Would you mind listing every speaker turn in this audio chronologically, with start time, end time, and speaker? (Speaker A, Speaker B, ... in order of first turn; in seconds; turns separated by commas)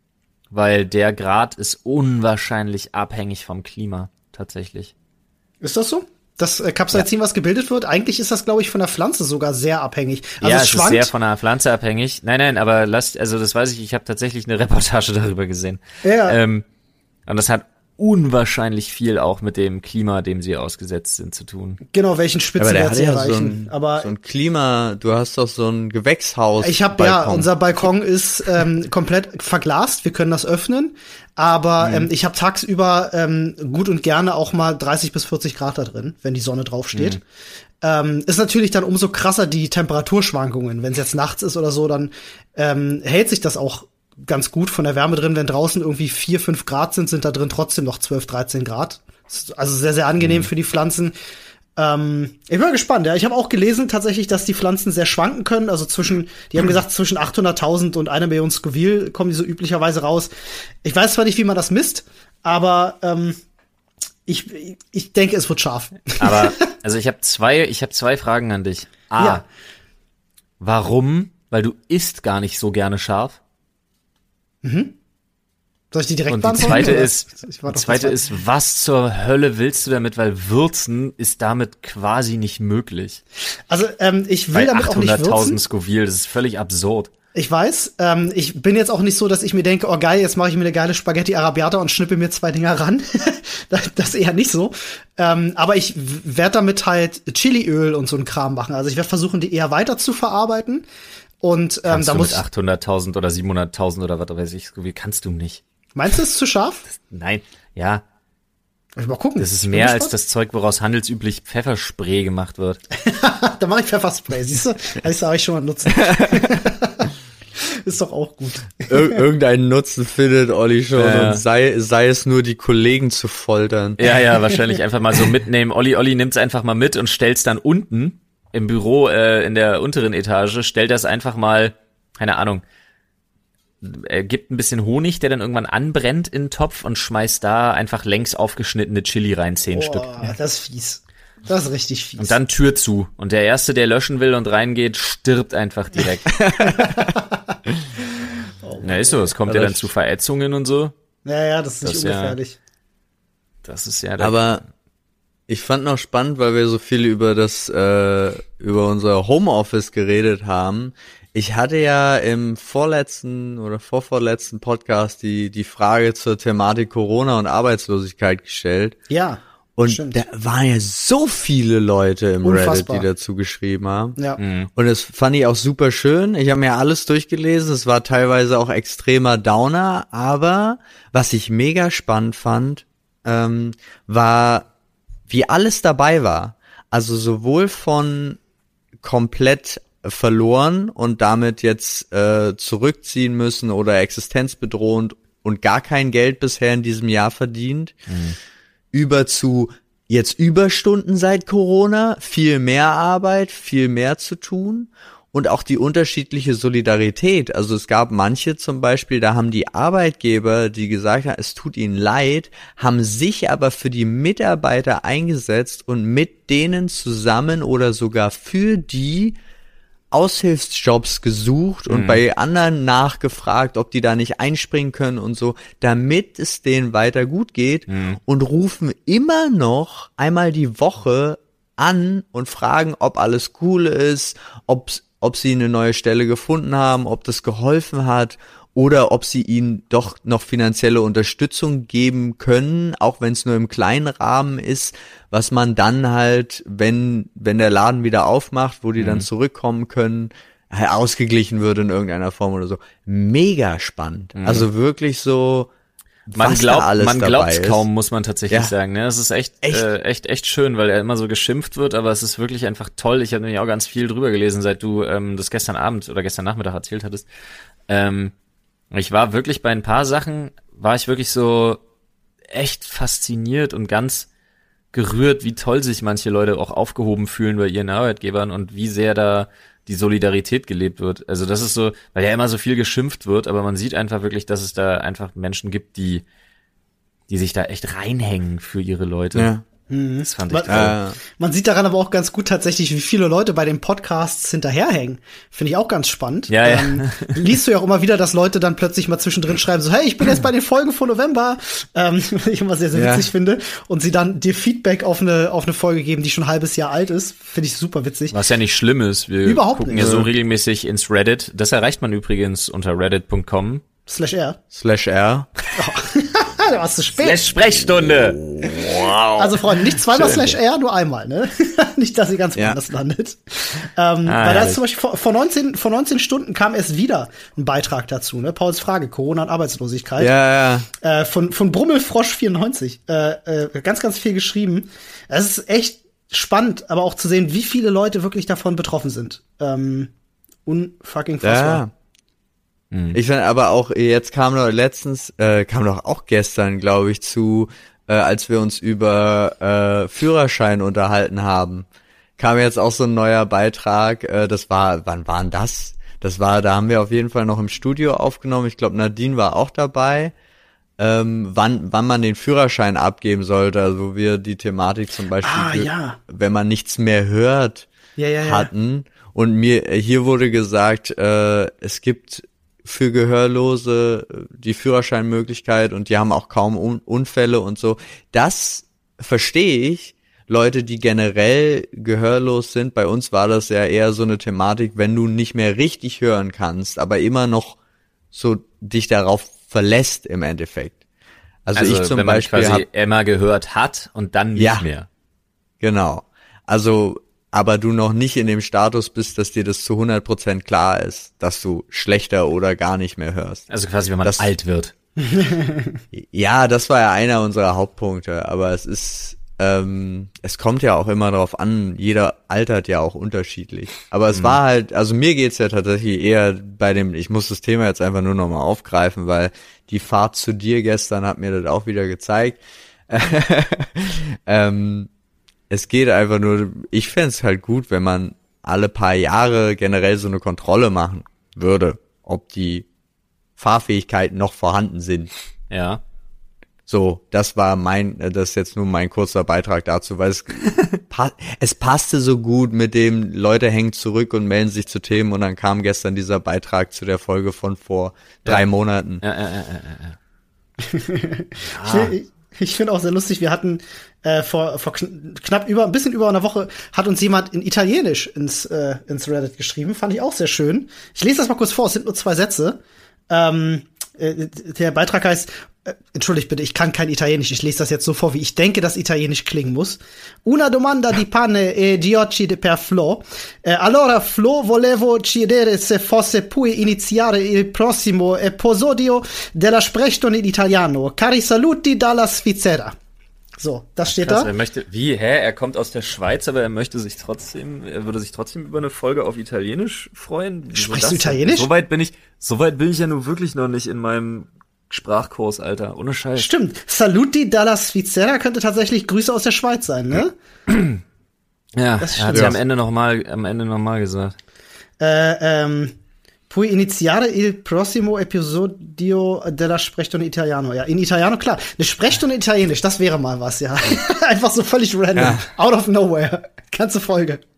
Speaker A: 0.5-4.9, Speaker B: 5.6-11.1, Speaker A: 10.4-16.6, Speaker B: 16.0-16.4, Speaker A: 17.3-21.8, Speaker B: 21.9-24.1, Speaker C: 22.6-27.5, Speaker B: 26.6-37.2, Speaker A: 36.9-37.2, Speaker B: 37.8-51.1, Speaker A: 50.2-50.5, Speaker B: 51.8-60.3, Speaker B: 60.8-63.4, Speaker B: 64.3-66.6, Speaker A: 66.2-69.4, Speaker A: 70.6-73.4, Speaker B: 74.6-75.0, Speaker B: 75.9-78.2, Speaker A: 76.3-83.2, Speaker B: 83.7-85.6, Speaker A: 84.5-87.1, Speaker B: 87.3-100.8, Speaker B: 101.4-102.4, Speaker A: 101.9-105.6, Speaker B: 106.0-106.8, Speaker A: 106.9-108.0, Speaker B: 109.0-110.1, Speaker A: 109.4-112.8, Speaker B: 113.0-119.2, Speaker C: 118.9-124.0, Speaker A: 121.0-121.4, Speaker A: 124.0-132.6, Speaker A: 133.8-140.2, Speaker B: 139.7-142.4, Speaker A: 142.2-146.7, Speaker C: 146.3-146.9, Speaker B: 146.8-147.6, Speaker B: 148.6-149.3, Speaker A: 148.8-150.9, Speaker C: 149.5-149.9, Speaker B: 151.3-152.6, Speaker A: 151.8-152.4, Speaker A: 153.6-154.6, Speaker C: 154.2-154.6, Speaker C: 155.5-168.9, Speaker B: 169.1-170.2, Speaker C: 169.8-174.2, Speaker B: 172.4-173.1, Speaker A: 174.4-174.7, Speaker C: 174.8-184.7, Speaker C: 185.3-188.4, Speaker C: 189.0-198.0, Speaker A: 198.1-198.4, Speaker C: 198.9-219.4, Speaker C: 220.1-255.7, Speaker A: 221.9-222.2, Speaker A: 227.9-228.2, Speaker A: 249.0-249.3, Speaker A: 254.4-254.7, Speaker A: 256.3-267.3, Speaker C: 256.3-257.8, Speaker C: 259.6-259.9, Speaker A: 267.9-268.3, Speaker A: 268.9-271.8, Speaker A: 272.5-274.3, Speaker A: 274.9-286.2, Speaker A: 287.3-289.5, Speaker C: 289.3-289.6, Speaker B: 289.9-308.3, Speaker A: 290.2-290.9, Speaker C: 290.7-291.2, Speaker A: 296.5-297.5, Speaker C: 302.9-303.3, Speaker A: 308.3-313.8, Speaker B: 309.4-310.0, Speaker C: 309.9-310.3, Speaker B: 314.1-314.6, Speaker C: 314.7-315.5, Speaker B: 315.8-317.5, Speaker A: 317.2-320.6, Speaker C: 317.8-318.8, Speaker B: 319.4-330.3, Speaker A: 324.2-324.8, Speaker C: 330.2-330.9, Speaker B: 331.0-340.1, Speaker B: 340.7-341.8, Speaker C: 341.4-341.9, Speaker A: 342.9-343.2, Speaker C: 343.1-351.9, Speaker C: 352.4-360.3, Speaker C: 361.0-367.9, Speaker B: 365.4-366.2, Speaker B: 368.2-368.7, Speaker C: 368.4-387.8, Speaker C: 388.3-391.0, Speaker C: 391.7-392.8, Speaker A: 391.7-395.1, Speaker C: 394.6-394.9, Speaker C: 395.8-403.6, Speaker A: 403.7-404.9, Speaker B: 405.2-406.0, Speaker C: 406.1-425.1, Speaker A: 414.3-414.6, Speaker C: 425.7-432.9, Speaker C: 433.6-435.3, Speaker A: 435.7-436.0, Speaker C: 436.9-449.2, Speaker A: 449.2-450.2, Speaker B: 450.8-482.9, Speaker A: 451.6-452.1, Speaker B: 483.6-484.5, Speaker A: 484.1-496.5, Speaker B: 490.7-491.7, Speaker B: 496.4-500.3, Speaker A: 500.7-501.0, Speaker A: 501.8-504.3, Speaker B: 502.0-502.6, Speaker C: 502.3-502.6, Speaker B: 505.0-505.9, Speaker B: 506.5-517.4, Speaker C: 515.1-515.5